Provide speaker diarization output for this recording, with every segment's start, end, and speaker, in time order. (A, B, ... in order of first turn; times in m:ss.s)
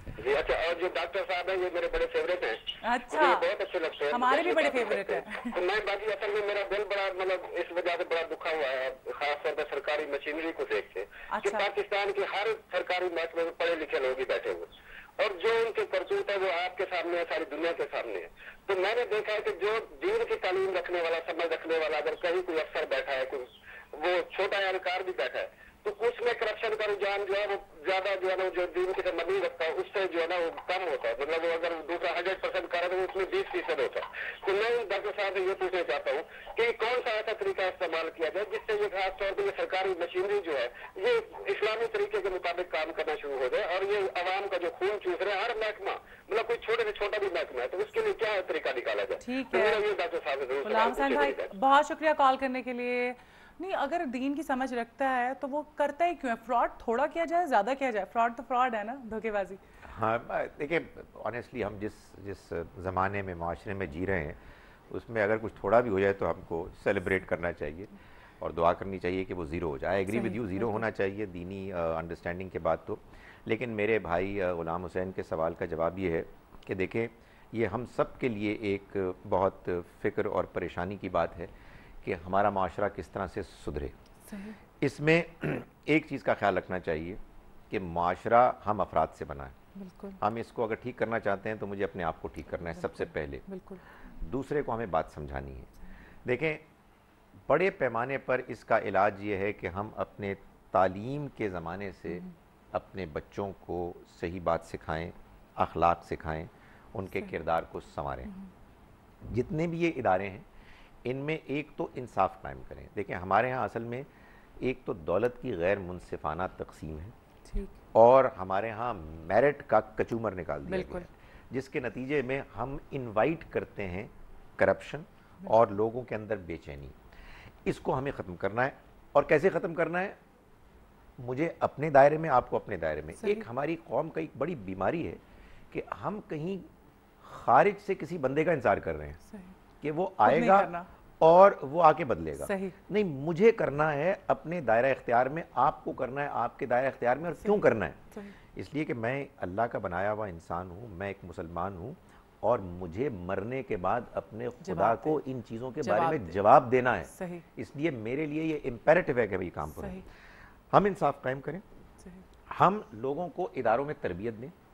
0:00.2-0:51.5 A
0:02.8-0:03.5 B
0:04.1-0:05.6 B
0:11.3-0:11.6 B
0:49.2-0:49.8 B
0:50.6-0:59.6 B
0:59.8-1:04.4 C
1:04.9-1:21.5 C
1:10.1-1:10.8 B
1:22.0-1:23.9 C
1:24.3-1:24.6 B
1:24.8-1:29.6 C
1:29.7-1:30.2 B
1:30.2-1:33.4 C
1:32.8-1:33.8 B
1:34.2-1:35.7 C
1:36.2-1:36.6 C
1:37.5-1:48.3 C
1:49.2-1:50.4 C
1:51.0-1:54.1 C
1:54.6-1:57.1 C
1:57.4-1:57.8 B
1:57.9-2:06.9 C
2:00.6-2:01.0 B
2:07.6-2:10.2 C
2:11.2-2:15.2 C
2:13.2-2:13.5 B
2:15.7-2:16.6 C
2:17.2-2:19.2 C
2:19.3-2:19.5 B
2:19.8-2:28.0 C
2:20.2-2:20.9 B
2:22.4-2:22.8 B
2:27.4-2:28.3 B
2:28.5-2:40.0 C
2:34.6-2:35.2 B
2:35.8-2:36.4 B
2:37.0-2:37.4 B
2:39.7-2:40.0 B
2:40.7-2:41.6 C
2:42.5-2:44.5 C